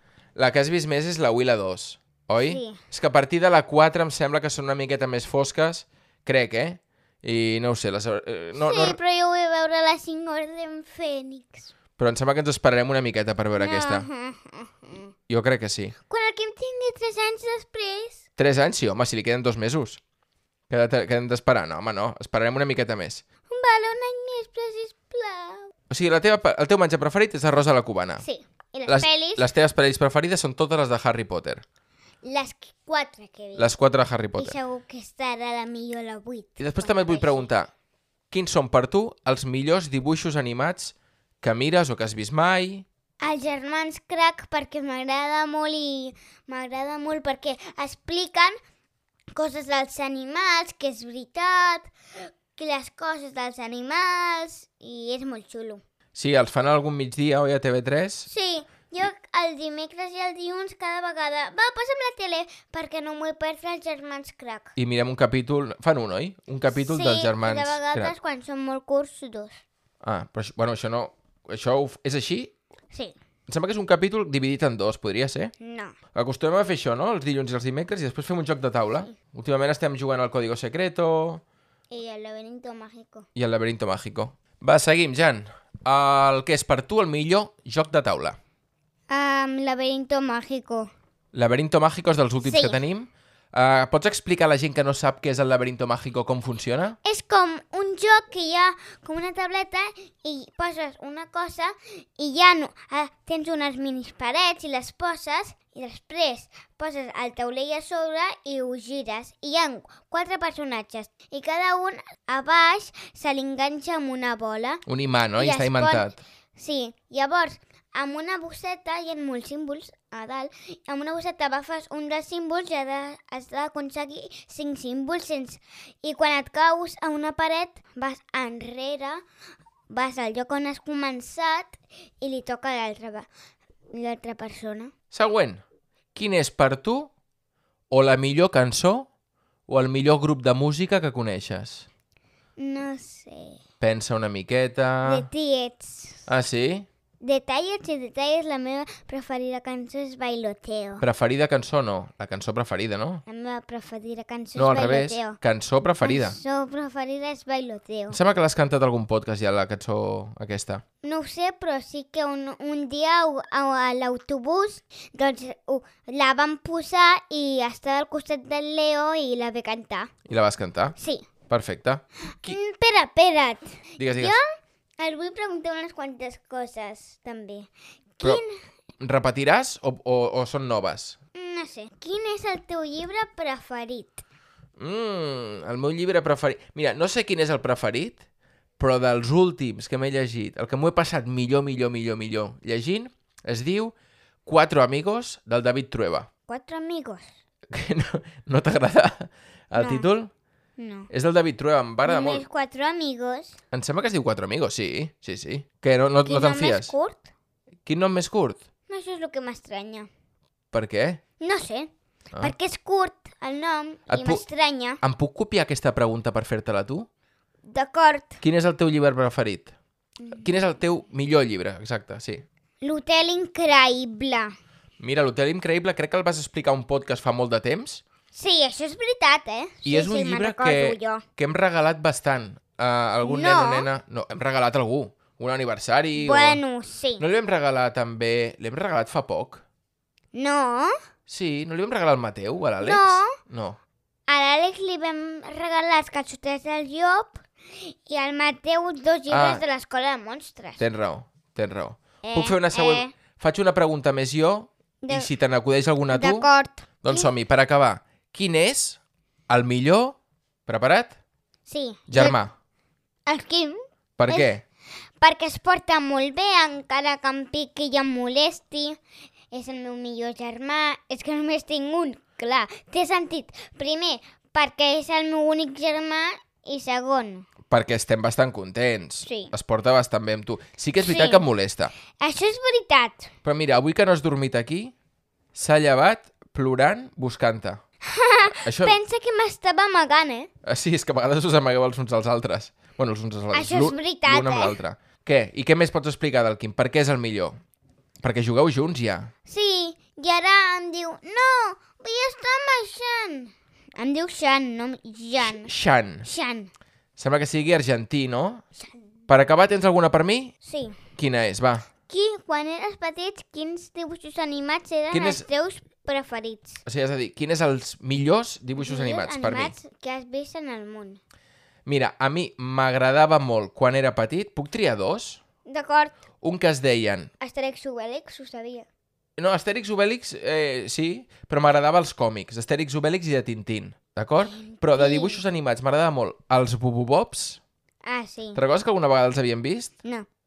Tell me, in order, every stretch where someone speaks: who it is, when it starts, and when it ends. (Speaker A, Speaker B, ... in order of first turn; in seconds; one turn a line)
Speaker A: 0.3-9.0
Speaker B: 2.4-2.8
Speaker B: 8.6-11.7
Speaker A: 12.0-14.1
Speaker B: 13.6-15.1
Speaker A: 15.3-15.9
Speaker B: 16.1-18.2
Speaker A: 18.4-20.0
Speaker A: 20.7-23.2
Speaker B: 23.5-25.7
Speaker A: 25.9-28.2
Speaker B: 28.2-29.5
Speaker A: 28.9-31.6
Speaker B: 32.2-33.7
Speaker A: 33.5-34.6
Speaker B: 34.4-37.5
Speaker A: 36.6-37.7
Speaker A: 38.3-42.9
Speaker B: 43.2-48.6
Speaker B: 49.3-55.8
Speaker A: 56.1-58.3
Speaker B: 58.3-64.7
Speaker A: 64.8-68.1
Speaker B: 66.7-69.6
Speaker A: 70.0-72.5
Speaker A: 73.5-75.5
Speaker B: 75.6-76.0
Speaker A: 76.1-81.4
Speaker B: 81.9-83.2
Speaker A: 83.3-88.4
Speaker B: 89.1-90.9
Speaker A: 91.3-97.0
Speaker B: 92.4-92.8
Speaker B: 97.0-114.8
Speaker A: 114.8-116.2
Speaker B: 115.3-129.2
Speaker B: 129.9-133.3
Speaker B: 133.9-134.9
Speaker A: 135.1-135.6
Speaker A: 136.1-137.1
Speaker A: 137.9-139.1
Speaker A: 139.7-141.9
Speaker B: 142.6-143.6
Speaker A: 143.8-145.3
Speaker B: 145.0-146.3
Speaker A: 146.3-146.9
Speaker B: 147.2-151.0
Speaker A: 151.0-153.2
Speaker B: 153.2-155.4
Speaker A: 154.6-156.4
Speaker B: 156.0-158.2
Speaker A: 158.1-160.8
Speaker B: 161.0-170.1
Speaker A: 170.3-170.9
Speaker B: 171.0-171.3
Speaker A: 171.5-172.6
Speaker B: 172.3-174.4
Speaker A: 174.0-174.4
Speaker B: 175.0-178.6
Speaker A: 179.0-181.2
Speaker B: 181.3-184.2
Speaker A: 184.8-188.2
Speaker A: 188.8-193.9
Speaker A: 194.4-196.3
Speaker B: 196.5-197.3
Speaker A: 197.7-200.3
Speaker B: 199.8-200.1
Speaker B: 200.8-201.1
Speaker A: 201.1-202.4
Speaker B: 202.0-203.6
Speaker A: 203.7-206.9
Speaker B: 206.2-207.3
Speaker A: 207.8-208.6
Speaker B: 208.9-210.1
Speaker A: 210.7-211.2
Speaker B: 211.4-215.0
Speaker A: 214.1-214.4
Speaker A: 215.0-217.1
Speaker B: 217.6-218.4
Speaker A: 218.4-219.7
Speaker B: 220.2-220.5
Speaker A: 220.4-222.4
Speaker B: 222.8-224.5
Speaker A: 225.0-228.0
Speaker B: 228.3-231.2
Speaker A: 229.8-236.6
Speaker B: 233.2-233.9
Speaker B: 236.2-237.2
Speaker A: 237.2-239.6
Speaker B: 240.3-241.0
Speaker A: 241.3-243.8
Speaker B: 242.8-243.3
Speaker B: 244.3-250.8
Speaker A: 249.3-249.6
Speaker A: 250.8-256.5
Speaker B: 252.2-253.1
Speaker B: 255.0-255.3
Speaker B: 256.1-257.3
Speaker A: 257.0-261.1
Speaker B: 261.6-262.4
Speaker A: 262.1-262.5
Speaker B: 263.2-264.5
Speaker A: 264.2-264.6
Speaker B: 265.2-269.0
Speaker B: 269.5-277.4
Speaker A: 277.7-281.9
Speaker B: 279.2-279.5
Speaker B: 281.0-281.4
Speaker B: 282.2-283.3
Speaker A: 283.4-284.9
Speaker A: 285.5-287.8
Speaker B: 288.1-290.5
Speaker A: 288.6-289.0
Speaker A: 290.6-297.6
Speaker B: 293.5-294.8
Speaker A: 298.2-299.3
Speaker B: 299.4-305.7
Speaker A: 305.4-306.2
Speaker B: 306.2-306.7
Speaker A: 307.2-308.6
Speaker A: 309.3-310.5
Speaker B: 310.6-311.0
Speaker A: 311.1-311.9
Speaker B: 312.1-316.8
Speaker A: 315.1-315.4
Speaker A: 316.8-319.8
Speaker B: 318.8-321.2
Speaker A: 321.9-325.4
Speaker B: 325.6-326.1
Speaker A: 326.4-327.3
Speaker B: 327.4-328.9
Speaker A: 329.4-337.6
Speaker B: 334.5-335.4
Speaker B: 338.0-338.6
Speaker A: 338.5-339.9